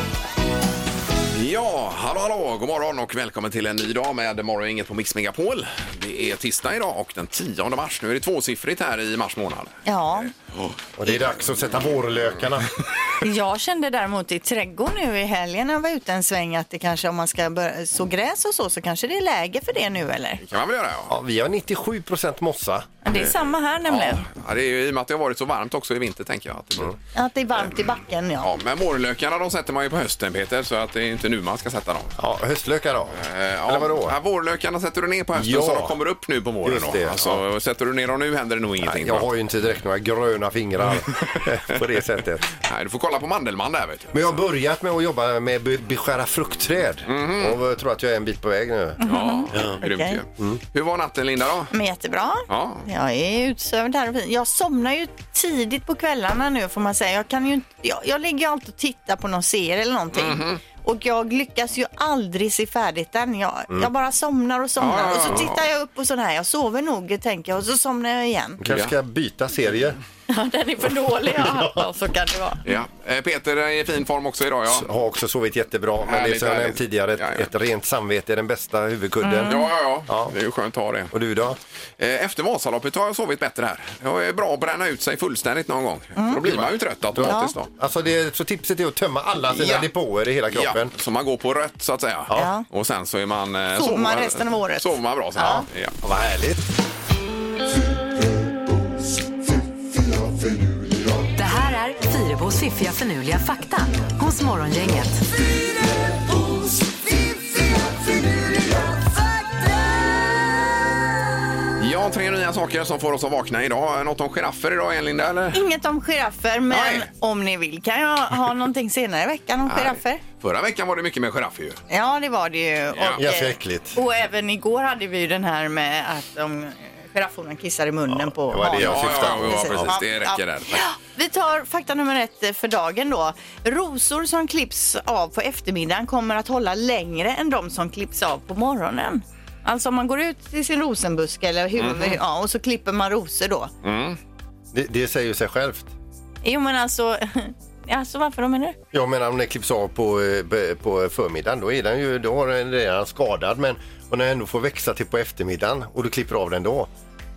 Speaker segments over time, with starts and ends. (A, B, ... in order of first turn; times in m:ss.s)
0:01.3-0:09.8 A
0:09.8-0:10.3 B
0:10.3-0:10.7 A
0:11.0-0:12.8 C
0:13.2-0:20.4 B
0:20.5-0:21.1 A
0:21.1-0:22.9 C
0:23.0-0:24.2 B
0:23.1-0:26.9 A
0:27.1-0:28.5 B
0:28.4-0:32.2 A
0:32.2-0:34.2 C
0:33.2-0:39.3 A
0:35.3-0:35.9 C
0:36.6-0:37.4 C
0:38.8-0:42.5 C
0:42.6-0:44.1 A
0:44.1-0:49.0 C
0:47.0-0:47.6 A
0:49.0-0:50.2 B
0:49.0-0:51.7 A
0:49.5-0:49.8 C
0:51.7-1:08.6 B
0:52.5-0:52.8 A
1:00.1-1:00.6 A
1:04.8-1:05.6 A
1:08.6-1:10.0 C
1:10.3-1:12.6 B
1:12.6-1:14.9 A
1:14.7-1:19.6 C
1:16.0-1:17.5 A
1:19.2-1:19.7 B
1:19.5-1:21.1 A
1:20.1-1:20.3 C
1:21.1-1:21.6 C
1:22.0-1:27.7 A
1:26.2-1:26.4 B
1:26.4-1:30.9 C
1:27.2-1:27.5 B
1:29.5-1:29.9 A
1:30.5-1:35.9 A
1:32.3-1:32.6 B
1:33.7-1:35.6 B
1:36.0-1:36.6 C
1:41.3-1:45.2 D
1:51.8-1:55.6 A
1:55.5-2:00.2 B
1:56.7-1:57.1 A
1:59.7-2:01.8 A
2:01.9-2:23.7 B
2:02.9-2:03.2 A
2:03.2-2:04.0 C
2:08.4-2:09.9 C
2:08.7-2:10.8 A
2:21.8-2:22.2 A
2:23.8-2:24.2 A
2:24.7-2:25.9 C
2:26.4-2:28.8 B
2:28.9-2:36.9 C